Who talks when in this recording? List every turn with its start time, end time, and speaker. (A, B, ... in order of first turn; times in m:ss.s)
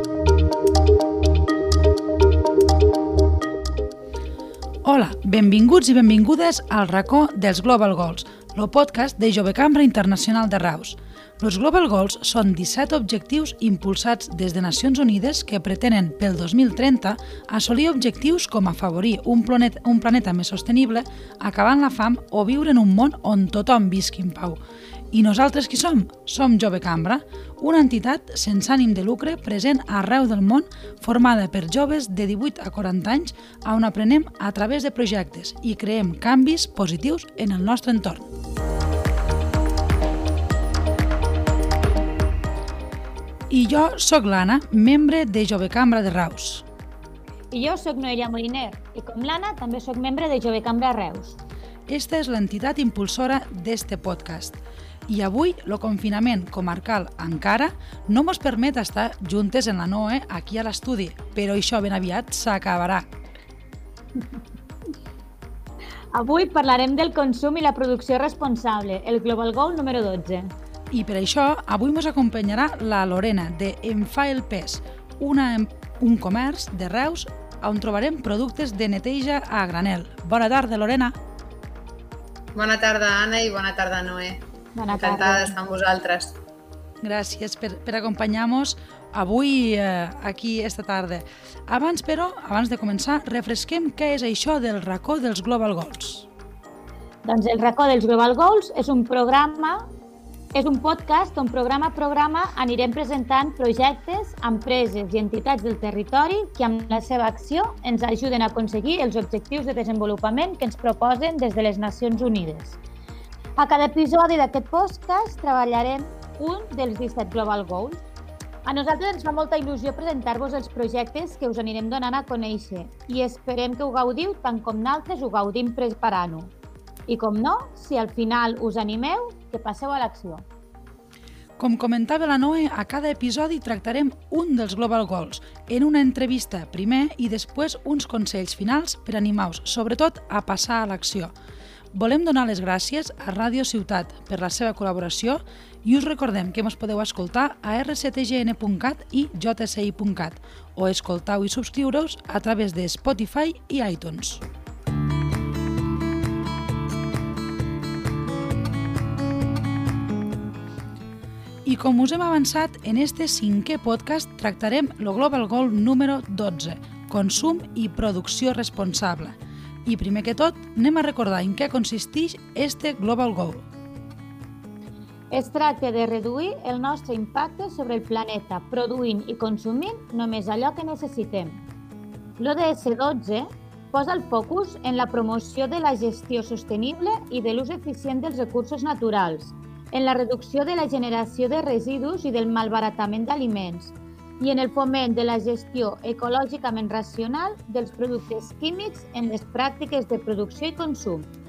0:04.8-0:24.6 A
0:25.1-0:38.3 A
0:43.5-0:46.6 A
0:47.5-0:51.4 B
0:51.9-1:03.0 A
1:06.1-1:10.5 B
1:10.9-1:21.1 A
1:22.5-1:26.3 C
1:24.7-1:25.5 B
1:27.0-1:36.3 A
1:37.2-1:39.9 B
1:40.5-1:52.8 B
1:53.6-1:58.0 B
1:58.6-2:06.5 B
2:07.1-2:10.4 B
2:11.6-2:21.3 A
2:21.9-2:34.4 A
2:41.6-2:53.6 A
2:55.3-3:01.6 B
3:02.4-3:21.3 B